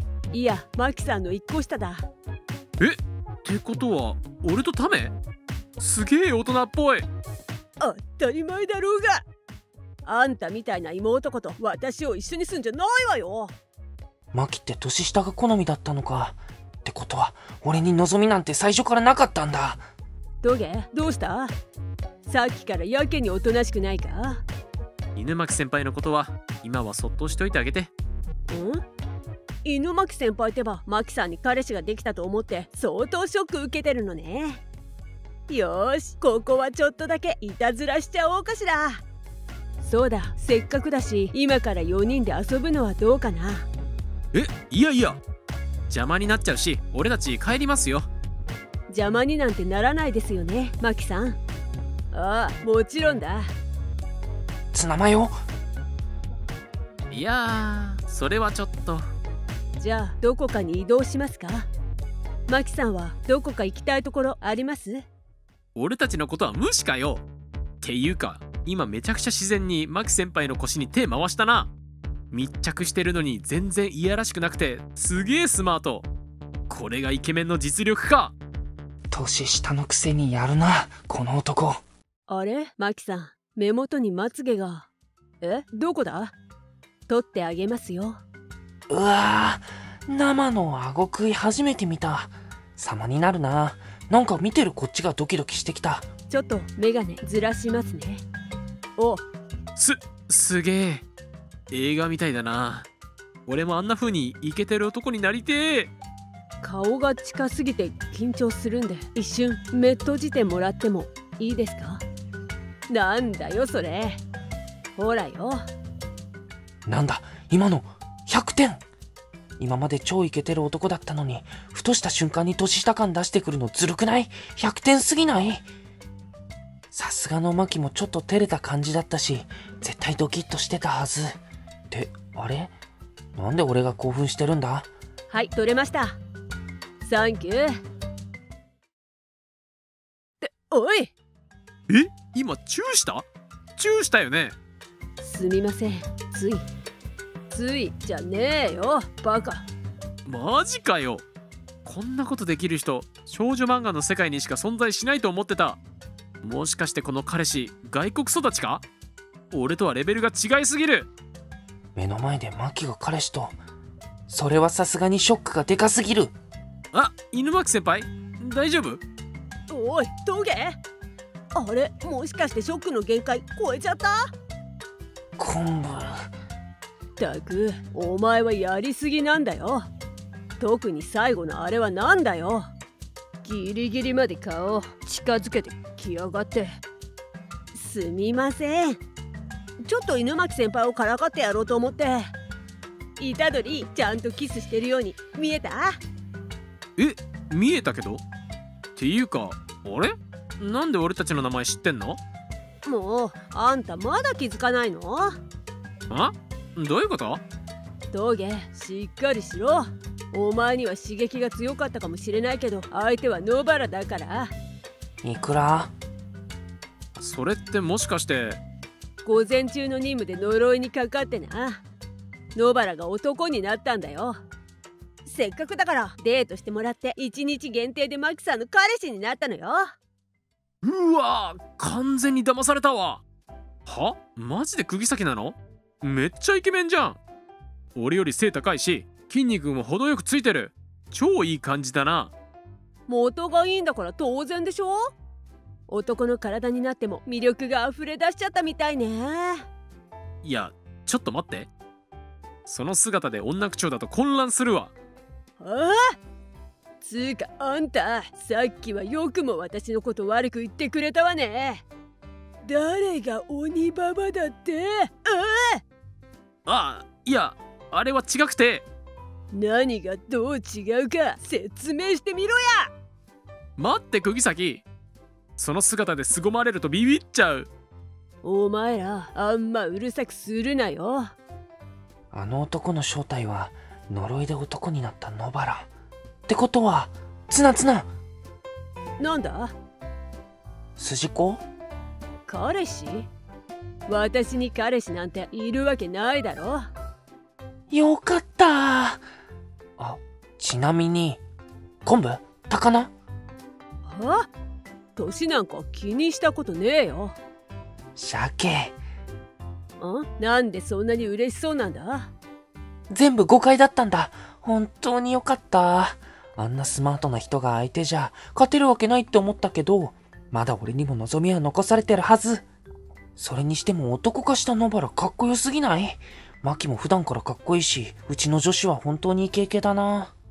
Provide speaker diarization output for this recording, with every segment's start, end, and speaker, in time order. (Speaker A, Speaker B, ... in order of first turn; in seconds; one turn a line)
Speaker A: 0.3-2.1
Speaker B: 2.8-5.1
Speaker B: 5.8-7.1
Speaker A: 7.8-9.2
Speaker A: 10.1-13.5
Speaker C: 14.3-19.8
Speaker A: 20.4-21.5
Speaker A: 22.2-24.4
Speaker B: 25.1-27.9
Speaker A: 28.5-28.8
Speaker A: 29.6-34.6
Speaker A: 35.5-39.0
Speaker A: 39.8-43.7
Speaker B: 44.3-45.2
Speaker B: 45.9-48.1
Speaker A: 48.9-51.4
Speaker A: 52.1-53.5
Speaker C: 54.7-55.4
Speaker B: 57.1-59.0
Speaker A: 59.8-61.7
Speaker A: 62.5-65.0
Speaker B: 65.7-67.2
Speaker B: 67.8-71.7
Speaker B: 72.3-76.1
Speaker B: 76.7-78.3
Speaker C: 79.1-81.8
Speaker A: 82.3-84.9
Speaker A: 85.4-86.3
Speaker A: 87.1-88.2
Speaker C: 88.9-96.1
Speaker A: 96.3-98.2
Speaker A: 99.0-99.2
Speaker B: 99.8-101.0
Speaker B: 101.7-102.9
Speaker B: 103.5-105.9
Speaker A: 106.6-112.0
Speaker A: 112.9-114.2
Speaker A: 115.0-115.6
Speaker C: 116.8-118.8
Speaker C: 119.6-125.6
Speaker C: 126.9-131.4
Speaker C: 131.9-132.7
Speaker C: 133.3-134.9
Speaker A: 135.3-136.2
Speaker A: 137.0-137.7
Speaker A: 140.4-141.1
Speaker B: 141.9-143.2
Speaker B: 143.8-144.5
Speaker A: 145.2-146.6
Speaker A: 147.5-149.6
Speaker B: 150.2-151.2
Speaker B: 151.8-155.8
Speaker B: 156.4-158.8
Speaker B: 159.5-161.1
Speaker C: 161.9-163.6
Speaker C: 164.3-166.3
Speaker B: 166.9-169.0
Speaker A: 169.7-170.8
Speaker A: 171.5-174.1
Speaker C: 175.4-176.3
Speaker A: 177.2-179.9
Speaker A: 180.6-182.7
Speaker A: 183.4-186.8
Speaker A: 187.7-189.0
Speaker A: 189.8-192.2
Speaker A: 193.2-196.0
Speaker B: 197.0-198.2
Speaker B: 198.9-202.2
Speaker A: 202.8-205.3
Speaker B: 206.1-207.4
Speaker A: 208.1-214.5
Speaker C: 215.2-215.9
Speaker B: 217.2-218.6
Speaker A: 219.2-221.8
Speaker A: 222.5-224.4
Speaker A: 225.2-229.8
Speaker B: 230.8-233.2
Speaker B: 233.8-237.2
Speaker B: 237.9-242.3
Speaker A: 243.1-245.1
Speaker A: 245.9-249.6
Speaker B: 250.4-251.7
Speaker B: 252.7-254.9
Speaker A: 255.6-256.1
Speaker A: 257.0-261.8
Speaker A: 262.6-265.8
Speaker B: 266.6-268.8
Speaker A: 269.5-272.9
Speaker B: 273.8-274.8
Speaker B: 275.6-277.7
Speaker A: 278.4-281.3
Speaker C: 282.3-285.9
Speaker C: 286.5-288.1
Speaker A: 289.2-289.7
Speaker C: 291.0-291.6
Speaker A: 292.4-293.3
Speaker A: 294.1-296.9
Speaker C: 297.9-299.2
Speaker C: 300.0-301.4
Speaker C: 302.0-303.1
Speaker A: 304.0-304.4
Speaker A: 305.1-307.4
Speaker C: 308.1-308.9
Speaker A: 310.0-312.3
Speaker C: 313.1-322.6
Speaker C: 323.4-330.3